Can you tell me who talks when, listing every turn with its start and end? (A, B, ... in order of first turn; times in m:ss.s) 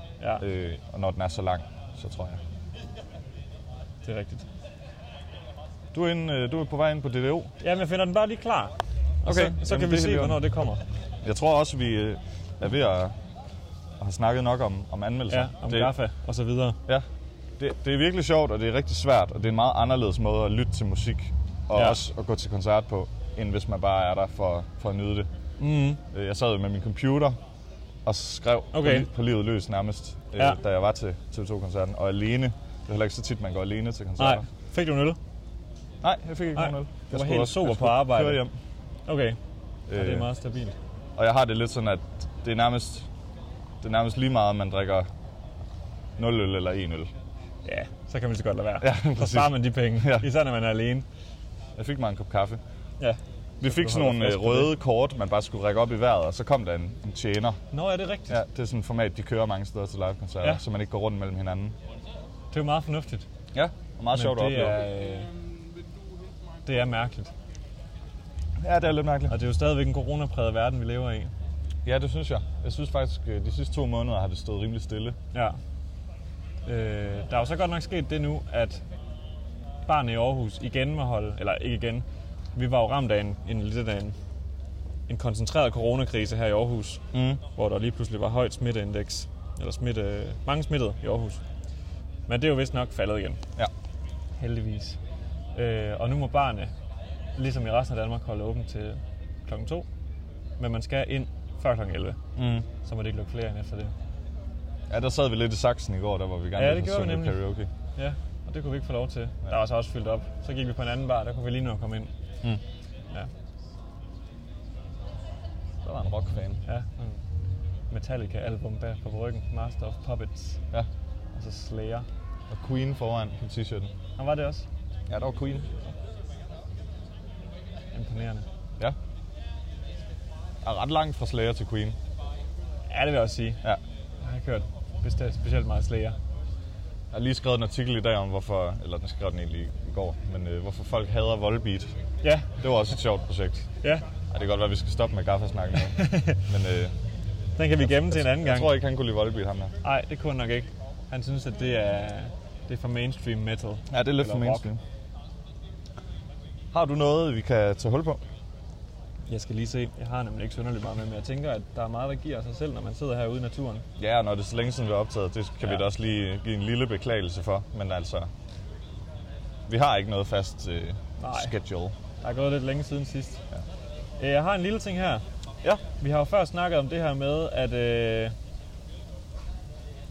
0:00.4-0:02.4 A
0:04.0-0:04.5 B
0:05.9-0:07.5 A
0:07.6-0:10.8 B
0:09.2-0:10.4 A
0:11.2-0:13.1 A
0:14.0-0:15.9 A
0:15.3-0:16.8 B
0:17.6-0:25.3 A
0:21.7-0:22.0 B
0:25.6-0:26.0 B
0:26.1-0:27.4 A
0:28.0-0:34.4 A
0:28.7-0:29.1 B
0:34.2-0:35.2 B
0:36.0-0:38.5 A
0:36.6-0:38.4 B
0:39.1-0:39.4 B
0:39.9-0:40.3 A
0:39.9-0:40.8 B
0:41.2-0:43.1 A
0:43.8-0:45.1 A
0:46.2-0:47.1 A
0:47.6-0:51.0 B
0:48.8-0:50.3 A
0:51.8-0:52.6 A
0:53.0-0:54.7 B
0:53.6-0:57.6 A
0:57.7-0:58.4 B
0:58.3-1:01.8 A
1:02.5-1:03.2 B
1:03.5-1:04.9 A
1:04.1-1:05.3 B
1:06.6-1:07.3 B
1:08.6-1:09.4 A
1:09.3-1:11.3 B
1:11.8-1:15.2 A
1:15.3-1:15.6 B
1:16.6-1:18.8 B
1:19.8-1:22.0 B
1:22.6-1:24.2 B
1:25.1-1:31.4 B
1:27.1-1:27.4 A
1:32.3-1:33.4 B
1:34.4-1:35.0 B
1:35.5-1:36.7 B
1:37.4-1:39.9 B
1:40.6-1:42.2 B
1:42.4-1:42.7 A
1:42.8-1:43.9 B
1:44.9-1:47.7 A
1:46.6-1:47.4 B
1:48.0-1:52.1 B
1:55.8-1:56.6 A
1:56.6-1:57.2 B
1:57.9-2:00.6 B
2:01.3-2:02.1 B
2:02.5-2:03.9 A
2:04.2-2:04.6 B
2:05.1-2:05.9 A
2:07.9-2:08.4 B
2:10.6-2:12.0 A
2:12.9-2:13.6 B
2:14.2-2:16.2 B
2:17.1-2:21.9 A
2:22.2-2:22.5 B
2:22.6-2:23.7 A
2:24.3-2:27.0 A
2:25.8-2:26.4 B
2:27.6-2:28.7 B
2:27.8-2:29.7 A
2:29.8-2:34.6 B
2:33.9-2:34.8 A
2:36.7-2:38.2 A
2:39.3-2:43.8 B
2:44.0-2:48.3 A
2:49.7-2:51.9 A
2:51.2-2:51.5 B
2:52.2-2:53.4 B
2:54.2-2:55.2 B
2:55.8-2:58.3 B